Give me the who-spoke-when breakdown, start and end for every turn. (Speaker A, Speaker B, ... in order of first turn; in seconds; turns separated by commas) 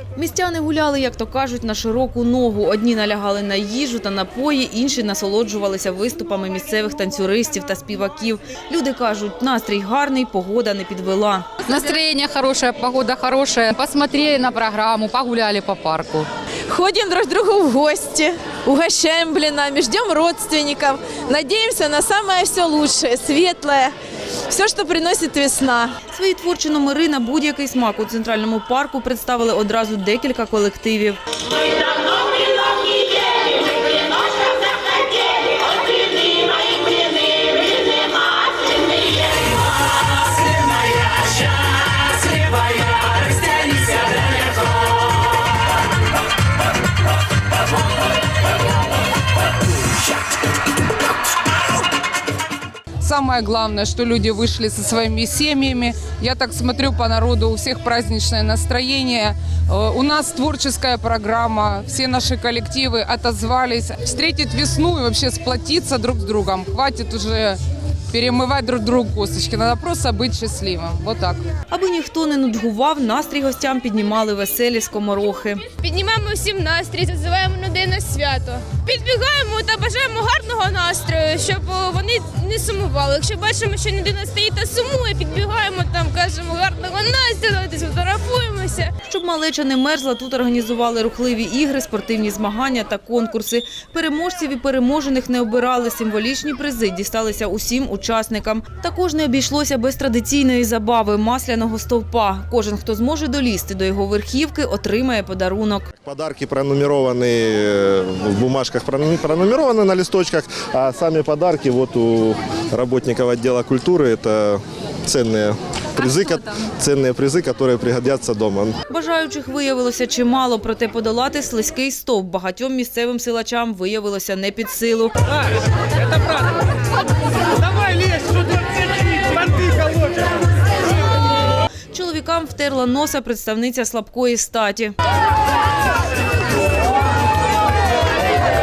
Speaker A: 0.2-11.5, Speaker B: 11.7-16.3, Speaker C: 16.7-23.9, Speaker C: 24.5-25.9, Speaker A: 26.1-31.2, Speaker D: 53.0-67.6, Speaker D: 68.1-71.4, Speaker A: 71.7-75.6, Speaker E: 75.8-88.9, Speaker A: 89.1-105.9, Speaker F: 106.0-118.8, Speaker A: 118.9-125.1, Speaker A: 131.9-134.9